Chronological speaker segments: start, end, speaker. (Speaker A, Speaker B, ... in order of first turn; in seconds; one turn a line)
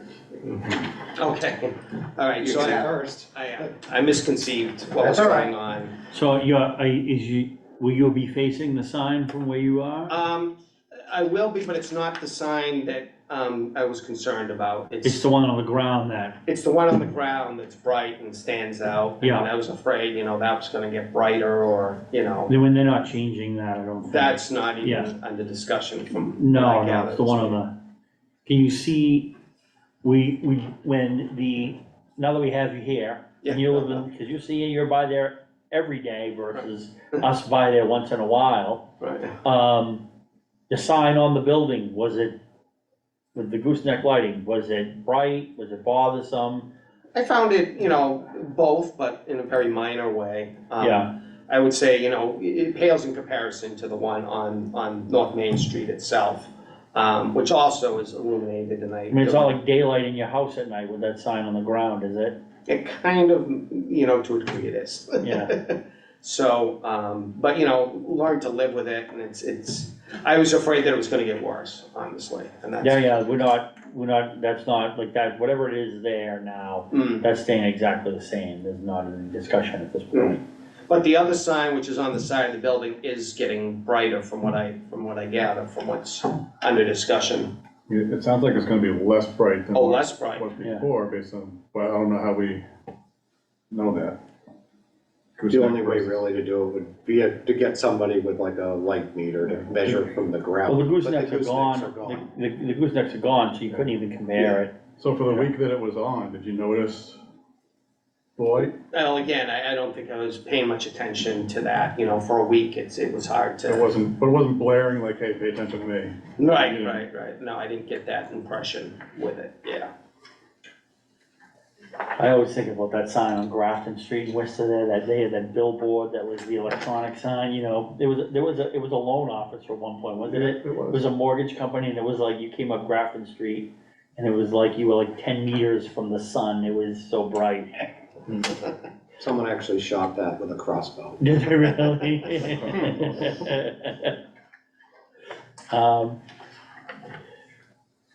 Speaker A: 0.5-6.0
Speaker B: 2.4-3.3
Speaker B: 5.0-5.5
Speaker C: 6.1-10.1
Speaker A: 10.1-15.2
Speaker C: 15.0-16.4
Speaker A: 16.4-22.5
Speaker C: 19.2-19.5
Speaker C: 22.5-25.1
Speaker A: 24.1-27.6
Speaker C: 26.4-27.7
Speaker C: 28.5-29.3
Speaker C: 30.0-38.9
Speaker A: 33.4-34.1
Speaker A: 39.0-39.4
Speaker C: 39.4-40.0
Speaker C: 40.7-42.4
Speaker C: 43.3-46.7
Speaker A: 47.1-59.6
Speaker C: 50.8-51.1
Speaker C: 59.1-62.4
Speaker A: 62.7-73.1
Speaker C: 65.2-65.6
Speaker C: 72.8-80.4
Speaker A: 76.9-77.3
Speaker A: 80.1-87.5
Speaker D: 87.9-92.7
Speaker A: 89.7-90.5
Speaker C: 90.6-90.9
Speaker D: 93.7-94.2
Speaker D: 95.4-96.2
Speaker B: 95.5-102.3
Speaker C: 100.7-104.8
Speaker D: 105.0-107.2
Speaker D: 108.4-108.8
Speaker A: 108.9-113.9
Speaker D: 113.7-117.0
Speaker A: 116.4-119.9
Speaker C: 122.2-137.8
Speaker D: 130.2-131.1
Speaker B: 139.2-141.2
Speaker C: 141.2-144.1
Speaker C: 145.7-146.2